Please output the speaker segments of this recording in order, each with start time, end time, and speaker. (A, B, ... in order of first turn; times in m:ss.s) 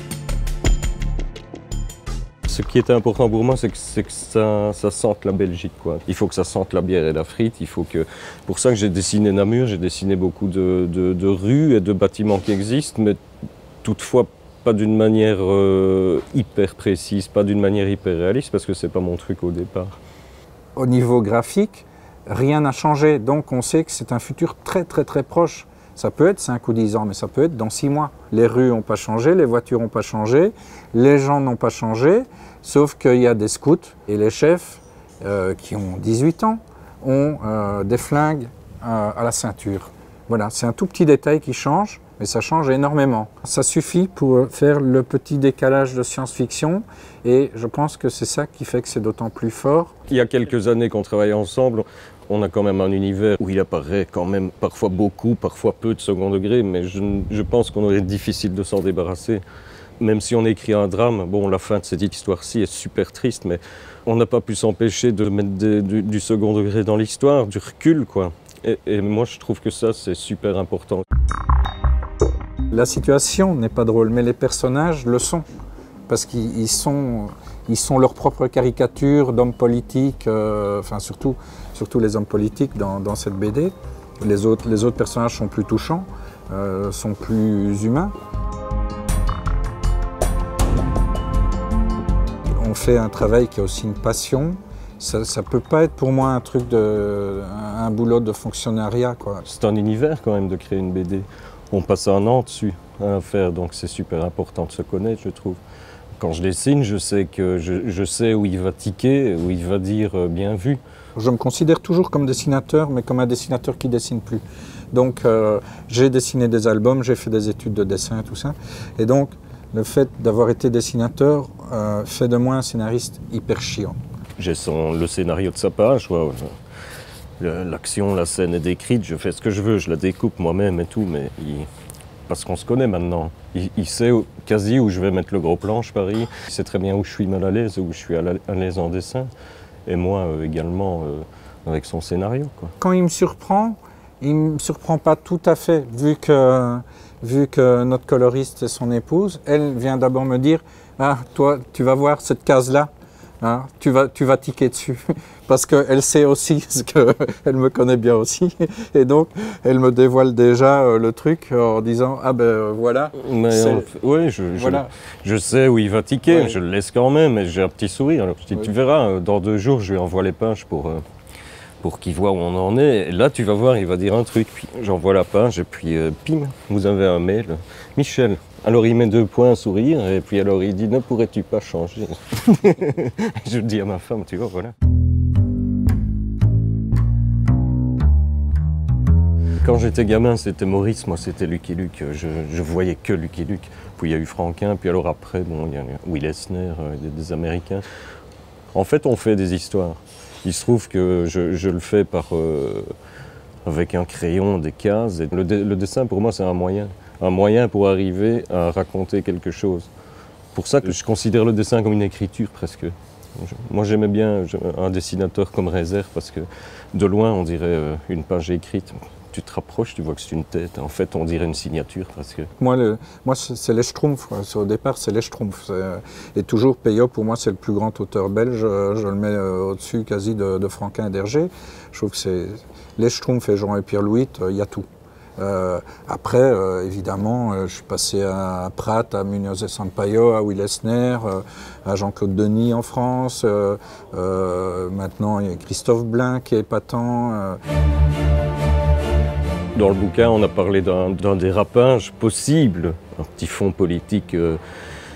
0:02.5-0:13.2 A
0:13.8-0:20.0 A
0:20.8-0:49.9 B
0:50.1-0:59.4 A
1:00.0-1:11.0 A
1:12.7-1:15.4 B
1:16.1-1:28.1 B
1:32.6-1:39.4 B
1:39.4-1:45.6 A
1:46.2-1:50.8 A
1:51.2-2:04.0 B
2:04.4-2:06.5 A
2:07.4-2:11.7 A
2:12.3-2:19.3 A
2:19.9-2:22.7 A
2:22.8-2:43.9 B
2:43.2-2:51.0 A
2:44.6-2:44.9 B
2:46.3-2:46.6 B
2:51.8-3:04.7 A
3:09.6-3:17.8 A
3:18.7-3:22.9 A
3:23.6-3:29.9 A
3:30.5-3:42.5 A
3:42.6-3:54.8 B
3:55.4-4:07.6 B
4:09.8-4:14.6 A